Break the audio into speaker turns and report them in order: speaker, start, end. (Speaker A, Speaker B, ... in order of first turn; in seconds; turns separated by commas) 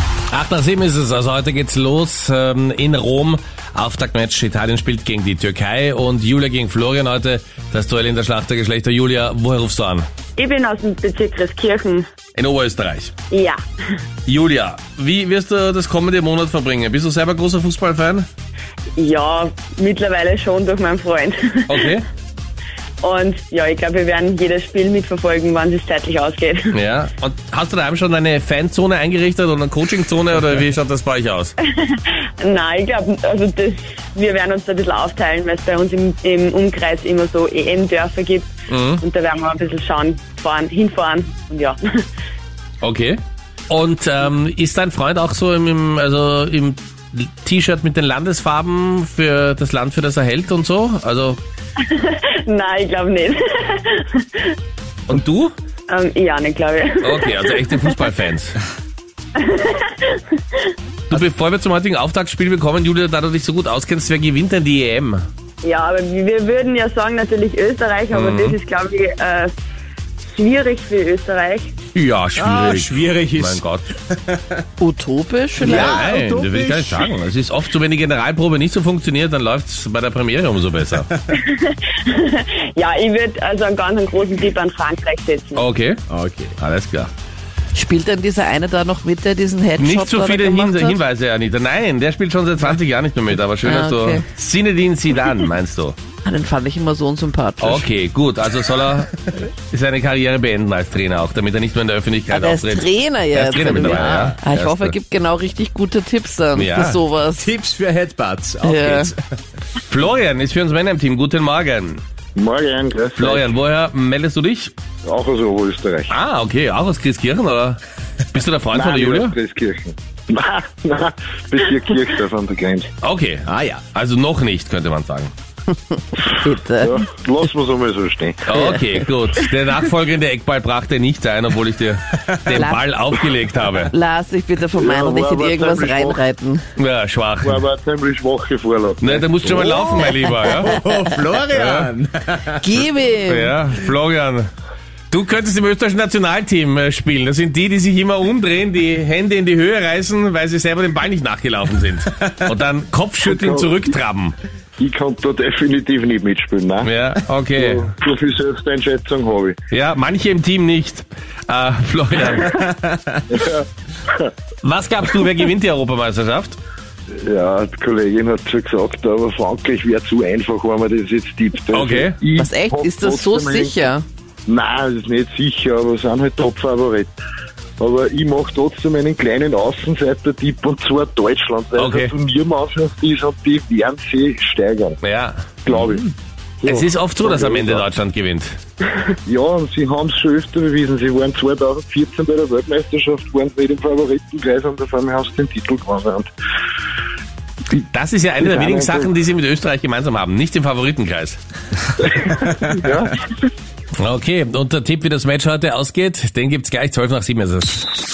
Speaker A: 0.3-10.1, Speaker B: 10.4-12.1, Speaker A: 12.3-13.1, Speaker B: 13.3-14.0, Speaker A: 14.3-18.3, Speaker B: 18.9-21.9, Speaker A: 21.7-22.1, Speaker B: 23.0-26.8, Speaker A: 26.7-31.5, Speaker B: 31.6-42.0, Speaker A: 38.7-39.0, Speaker A: 42.8-51.4, Speaker B: 51.8-54.6, Speaker A: 55.1-55.5, Speaker B: 55.9-58.0, Speaker A: 57.0-58.6, Speaker B: 59.3-60.7, Speaker A: 61.1-65.2, Speaker B: 65.6-69.5, Speaker A: 68.1-68.6, Speaker B: 70.3-71.8, Speaker A: 71.9-73.9, Speaker C: 72.3-74.6, Speaker D: 74.8-76.0, Speaker C: 75.6-77.1, Speaker A: 75.6-81.1, Speaker B: 81.3-85.7, Speaker A: 85.5-86.0, Speaker C: 86.1-86.5, Speaker A: 86.6-87.1, Speaker D: 87.7-91.0, Speaker A: 89.8-96.0, Speaker D: 93.6-94.2, Speaker D: 96.2-97.8, Speaker A: 97.6-105.0, Speaker D: 102.3-107.5, Speaker C: 103.7-104.3, Speaker A: 106.5-107.0, Speaker C: 107.4-109.4, Speaker D: 108.6-109.1, Speaker A: 109.9-112.0, Speaker E: 112.3-113.5, Speaker A: 113.1-114.7, Speaker E: 115.0-116.1, Speaker A: 116.1-119.3, Speaker E: 118.7-122.9, Speaker A: 123.0-125.3, Speaker C: 123.5-123.8, Speaker D: 126.2-127.0, Speaker E: 126.8-128.5, Speaker A: 128.4-133.9, Speaker D: 128.5-129.0, Speaker C: 132.2-132.6, Speaker D: 132.5-132.8, Speaker D: 133.9-136.6, Speaker E: 134.8-136.2, Speaker A: 136.8-137.6, Speaker E: 137.4-139.3, Speaker A: 139.0-140.9, Speaker C: 139.4-142.9, Speaker A: 141.5-141.9, Speaker D: 142.6-143.5, Speaker A: 143.3-144.5, Speaker A: 145.1-154.3, Speaker E: 153.2-153.9, Speaker E: 154.8-156.9, Speaker A: 156.8-157.9, Speaker E: 157.5-159.6, Speaker A: 159.7-162.6, Speaker C: 162.3-163.2, Speaker E: 163.3-164.3, Speaker A: 164.6-166.6, Speaker E: 167.1-173.9, Speaker A: 171.7-172.2, Speaker D: 172.3-174.0, Speaker E: 174.5-177.1, Speaker E: 177.8-185.0, Speaker A: 181.8-182.1, Speaker A: 185.0-186.0, Speaker E: 185.7-187.9, Speaker A: 186.6-188.6, Speaker E: 189.2-196.3, Speaker A: 197.7-201.4, Speaker E: 198.4-199.1, Speaker E: 202.0-203.2, Speaker C: 202.3-202.9, Speaker A: 204.0-207.9